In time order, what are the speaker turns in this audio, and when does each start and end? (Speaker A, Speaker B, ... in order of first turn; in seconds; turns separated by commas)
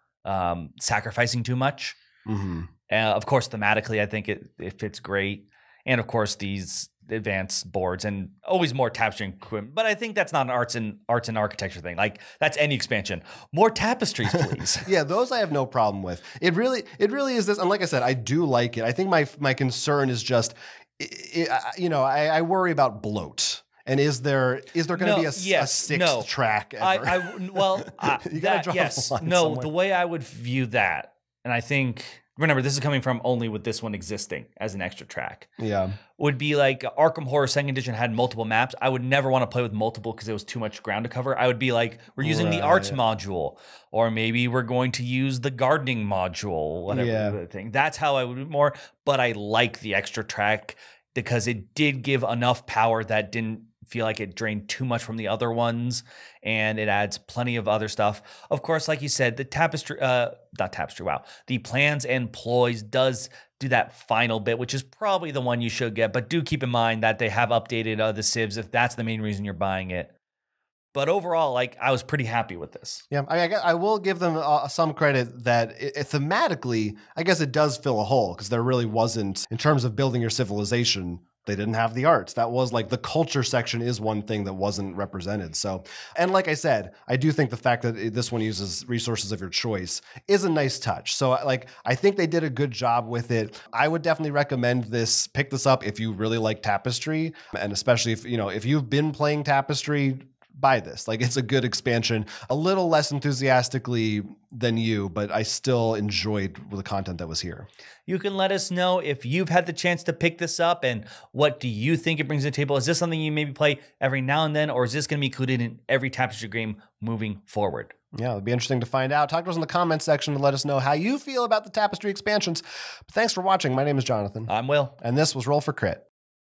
Speaker A: 0.2-1.9, Speaker B: 2.2-2.7, Speaker A: 2.9-14.8, Speaker B: 14.8-29.7, Speaker A: 24.9-35.5, Speaker B: 35.6-36.0, Speaker A: 36.2-70.1, Speaker B: 42.2-43.0, Speaker B: 46.9-47.4, Speaker A: 70.9-73.0, Speaker B: 73.1-107.7, Speaker A: 108.1-117.9, Speaker B: 118.1-126.0, Speaker A: 124.5-124.9